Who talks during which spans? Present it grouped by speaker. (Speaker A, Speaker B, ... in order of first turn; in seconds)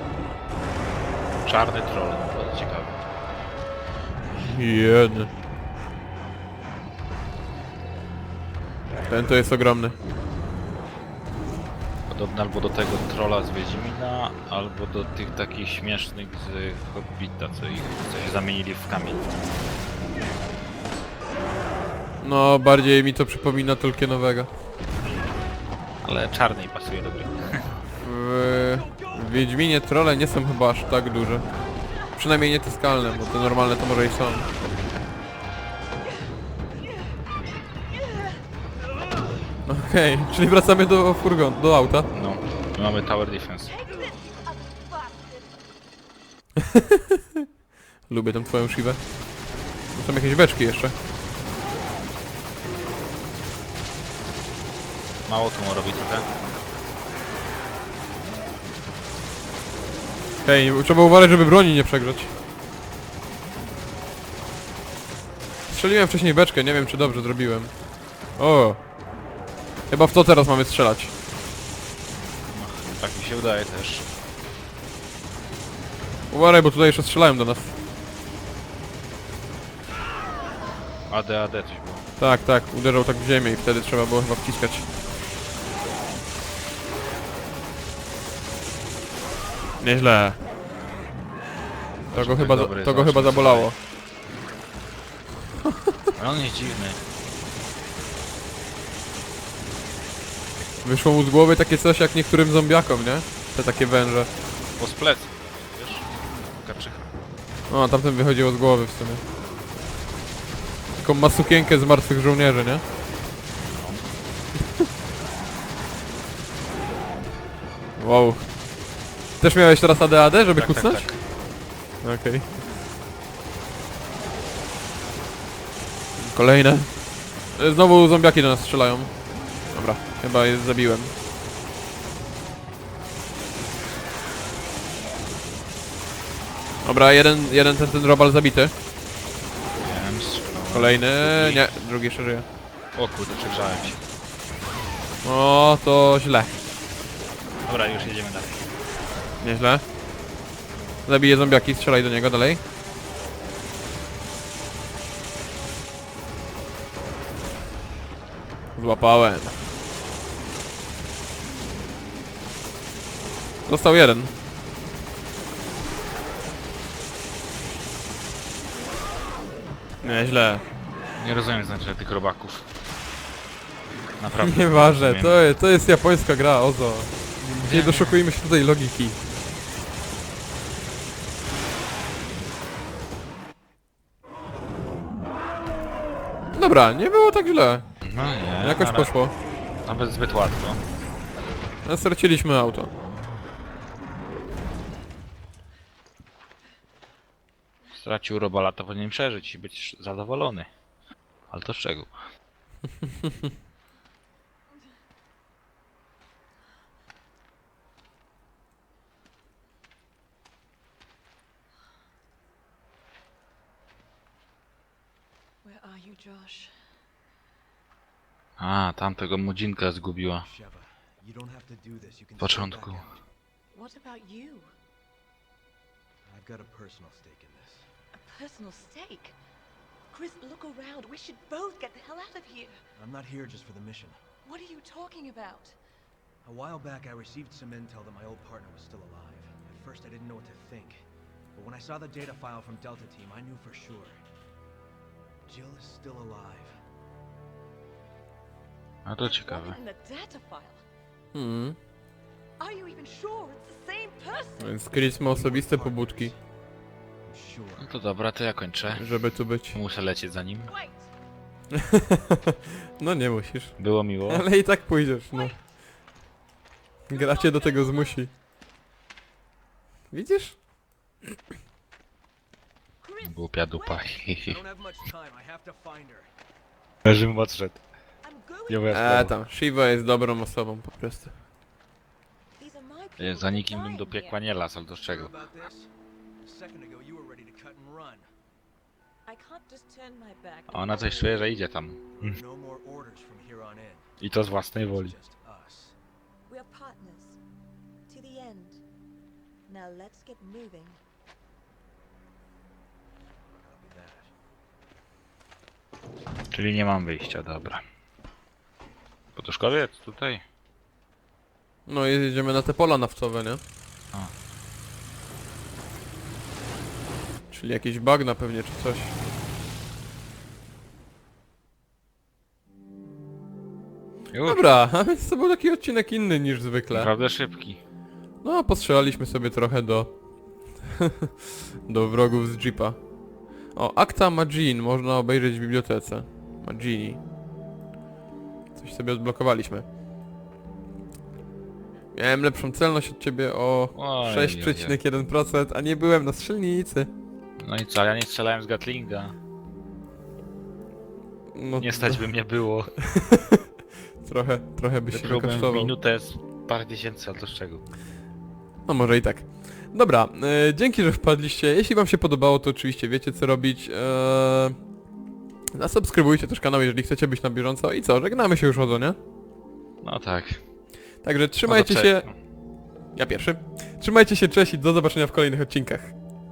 Speaker A: 1.4-3.0, 12.1-19.3, 26.0-27.6, 42.1-43.7, 55.2-56.3, 72.5-74.0, 81.1-82.0, 92.1-93.7, 96.1-97.0, 104.8-107.1, 113.7-114.0, 120.5-121.2, 139.8-141.6, 142.9-144.0, 147.7-148.6, 171.2-172.7, 174.2-175.4, 177.5-178.2, 188.0-189.1, 189.8-190.8, 197.9-200.7, 201.5-202.1, 218.6-220.5, 222.4-223.1, 249.0-249.8, 257.8-259.1, 259.7-260.7, 263.8-264.4, 273.2-274.6, 277.0-277.8, 278.7-279.3, 283.2-285.3, 290.7-292.4, 294.2-295.1, 306.5-307.8, 309.4-310.4, 324.3-324.6, 326.9-327.8, 343.9-345.0, 347.6-349.3, 351.8-352.9, 355.1-357.9, 370.0-370.6, 371.6-372.3
Speaker B: 4.3-5.3, 9.0-9.9, 22.2-24.5, 28.0-31.5, 32.1-34.5, 39.6-42.1, 48.1-49.0, 49.9-51.0, 60.4-62.3, 65.7-67.7, 68.4-68.8, 69.9-71.1, 76.3-77.7, 82.2-84.9, 89.8-90.4, 92.1-93.8, 100.8-104.3, 107.7-109.2, 111.0-112.8, 118.0-118.5, 119.4-121.1, 122.0-122.6, 126.2-126.9, 127.5-129.1, 129.7-131.1, 136.8-138.7, 140.7-142.4, 145.2-146.6, 149.4-149.8, 151.1-152.6, 158.8-159.6, 163.7-164.3, 170.0-170.7, 174.4-179.2, 186.5-187.8, 188.6-189.3, 191.8-192.9, 251.3-251.8, 254.6-256.3, 258.9-259.8, 261.9-263.7, 264.2-265.5, 267.1-268.3, 270.1-270.6, 278.9-281.4, 311.9-313.6, 317.5-319.1, 324.4-327.1, 328.4-330.1, 330.9-331.3, 331.9-333.0, 333.7-337.2, 338.7-339.9, 342.1-347.1, 351.5-352.2, 353.0-353.6, 354.2-355.9, 358.9-364.8, 365.7-369.2, 371.2-372.3, 373.1-376.1
Speaker C: 36.8-37.1, 37.9-38.4, 43.6-45.5, 215.6-216.7, 223.7-224.7, 228.1-229.3, 230.1-232.8, 234.4-235.8, 249.2-250.8, 252.6-254.7, 260.6-261.1, 265.3-265.6, 267.1-268.3, 273.0-274.2, 278.2-279.0, 282.6-284.4, 289.3-291.6, 296.5-297.4, 298.1-298.8, 299.7-301.0
Speaker D: 220.4-223.2, 226.2-227.9, 232.9-234.3, 236.4-241.0, 241.5-244.2, 245.4-246.7, 254.9-256.4, 257.2-257.9, 274.4-276.3, 285.0-288.3, 292.2-294.1, 294.9-295.9, 303.5-304.3